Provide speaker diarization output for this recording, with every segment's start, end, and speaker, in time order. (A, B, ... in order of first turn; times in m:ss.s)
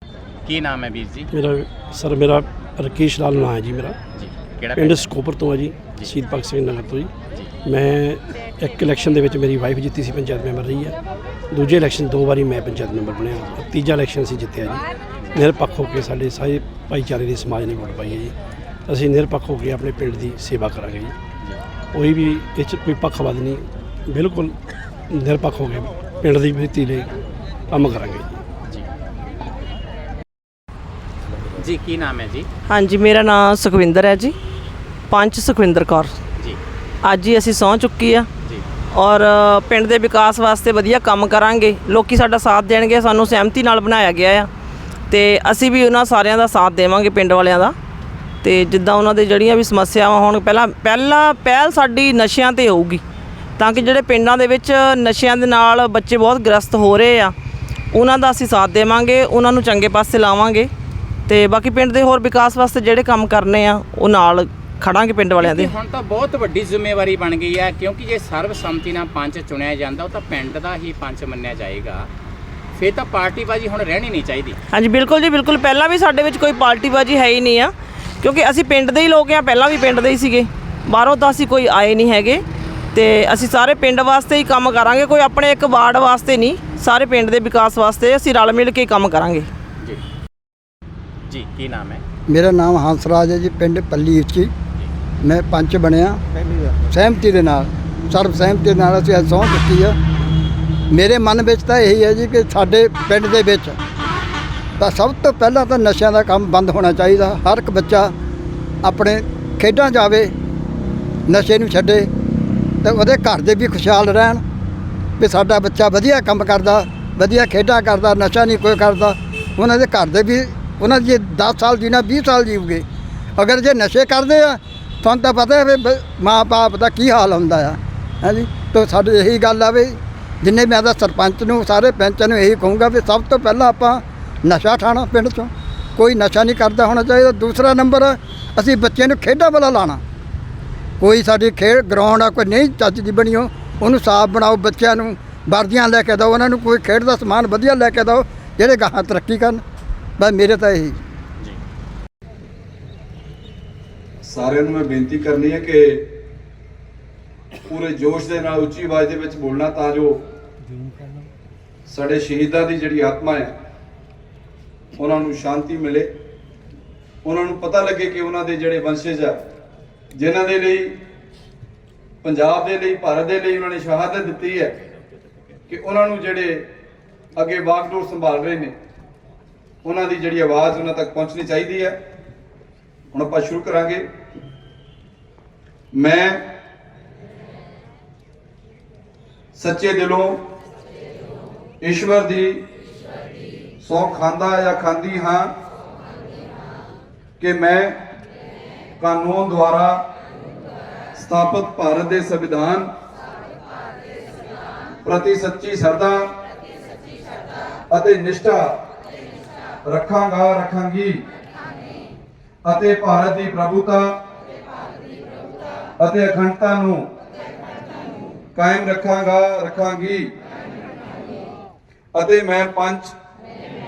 0:00.4-0:01.3 A
0:01.3-0:04.0 B
0:04.2-0:05.1 A
0:04.7-0:07.1 B
0:07.6-0:10.9 B
0:11.5-0:14.8 B
0:15.3-0:18.3 B
0:18.9-0:21.1 B
0:21.9-0:24.5 B
0:25.1-0:27.1 B
0:27.7-0:28.4 B
0:31.6-0:32.5 A
0:32.7-0:34.3 C
0:35.1-0:36.1 C
0:37.0-0:38.3 C
0:38.9-0:44.5 C
0:45.1-0:47.7 C
0:48.4-0:53.0 C
0:53.6-0:57.3 C
0:57.9-1:00.7 C
1:01.3-1:05.7 C
1:05.4-1:12.1 A
1:12.7-1:14.6 A
1:14.7-1:22.4 C
1:22.9-1:29.5 C
1:31.3-1:32.0 A
1:32.3-1:34.5 D
1:35.2-1:36.2 D
1:36.9-1:40.0 D
1:40.9-1:43.8 D
1:44.8-1:48.1 D
1:48.8-1:50.3 D
1:51.3-1:52.1 D
1:52.8-1:54.4 D
1:55.2-2:02.8 D
2:03.4-2:20.0 D
2:21.0-2:29.6 D
2:30.2-2:31.0 D
2:34.3-2:36.0 E
2:37.7-2:40.1 E
2:41.9-2:43.5 E
2:45.0-2:46.1 E
2:47.2-2:49.4 E
2:50.2-2:50.9 E
2:52.2-2:54.7 E
2:55.7-2:56.6 E
2:57.4-2:58.7 E
2:59.8-3:01.9 E
3:03.1-3:04.0 E
3:05.9-3:06.4 E
3:09.6-3:10.3 E
3:11.8-3:12.6 E
3:13.8-3:15.5 E
3:17.4-3:18.0 E
3:19.0-3:20.0 E
3:21.2-3:22.9 E
3:25.0-3:26.2 E
3:27.9-3:28.7 E
3:29.8-3:31.2 E
3:32.6-3:34.1 E
3:36.0-3:37.0 E
3:38.6-3:40.3 E
3:42.1-3:43.1 E